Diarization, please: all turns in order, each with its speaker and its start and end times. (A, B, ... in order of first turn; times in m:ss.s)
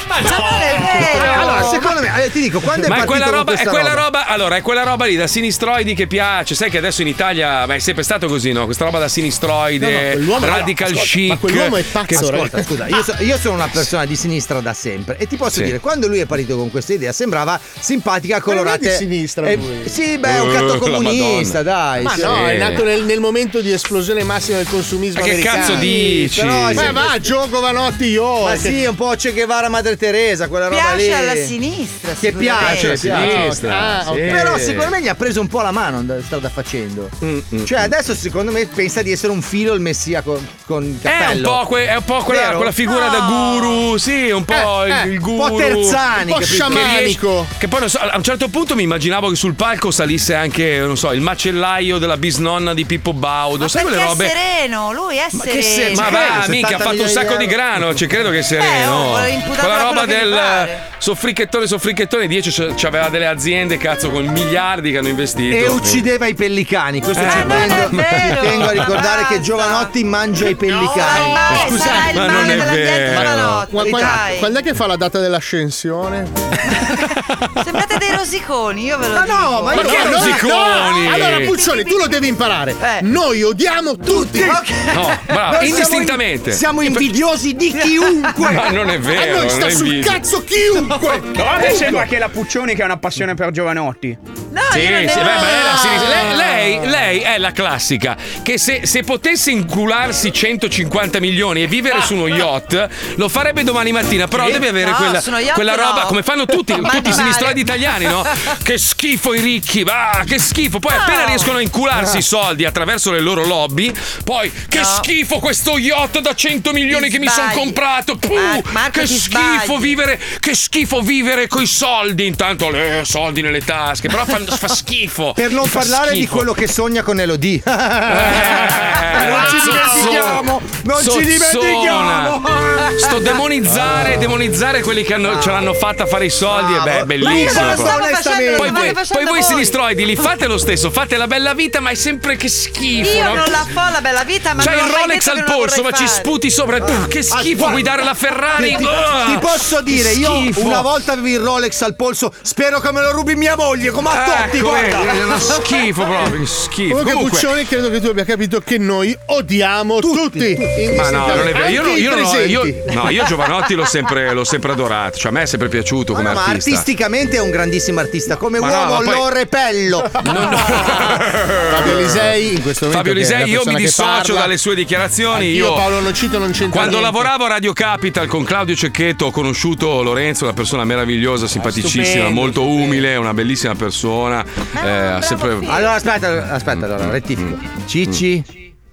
0:00.2-0:01.9 A
0:00.2-0:04.0 B
0:00.8-0:01.8 C
0:02.8-0:12.2 D
0:09.8-0:12.7 C
0:12.1-0:22.4 B
0:18.5-0:19.9 C
0:20.2-0:22.8 D
0:22.0-0:26.0 C
0:25.2-0:27.0 D
0:25.5-0:27.1 B
0:26.7-0:28.8 C
0:28.4-0:31.5 B
0:30.7-0:33.2 A
0:32.2-0:33.6 B
0:32.6-0:34.9 D
0:33.0-0:34.6 C
0:34.2-0:41.6 B
0:37.2-0:37.8 D
0:41.0-0:46.0 D
0:42.3-0:42.9 B
0:43.0-0:43.5 A
0:45.3-0:46.9 B
0:46.2-0:47.5 C
0:46.6-0:54.4 D
0:53.6-0:56.5 A
0:55.3-0:57.6 B
0:55.8-1:06.0 D
0:58.5-1:00.8 A
1:05.5-1:12.5 B
1:07.2-1:08.8 D
1:07.2-1:09.9 A
1:10.6-1:14.5 A
1:11.9-1:13.6 D
1:13.2-1:16.3 C
1:13.8-1:14.2 B
1:17.6-1:23.1 A
1:19.1-1:20.6 B
1:19.7-1:24.6 C
1:19.8-1:21.6 D
1:24.1-1:28.7 B
1:24.4-1:25.9 A
1:24.9-1:26.6 D
1:27.8-1:28.3 A
1:28.4-1:30.2 D
1:29.1-1:32.1 C
1:31.3-1:34.2 E
1:34.5-1:36.4 A
1:34.7-2:06.5 D
1:44.3-1:48.5 A
1:50.9-1:51.6 A
1:54.7-1:55.1 A
1:56.9-2:00.0 A
2:05.4-2:13.2 B
2:08.1-2:12.4 D
2:12.9-2:23.7 D
2:13.7-2:14.1 B
2:15.2-2:15.6 B
2:16.5-2:19.0 B
2:17.2-2:20.3 A
2:23.0-2:26.3 A
2:24.6-2:30.9 D
2:27.3-2:27.9 B
2:28.5-2:35.6 B
2:34.1-2:37.5 D
2:36.9-2:42.8 C
2:40.0-2:40.6 B
2:40.9-2:46.9 D
2:46.1-2:50.3 B
2:48.6-2:49.3 D
2:50.2-2:52.4 D
2:51.7-2:54.5 C
2:52.9-2:55.9 D
2:55.3-2:57.3 C
2:56.7-3:05.9 D
3:01.6-3:02.9 B
3:04.8-3:05.8 A
3:05.6-3:08.5 B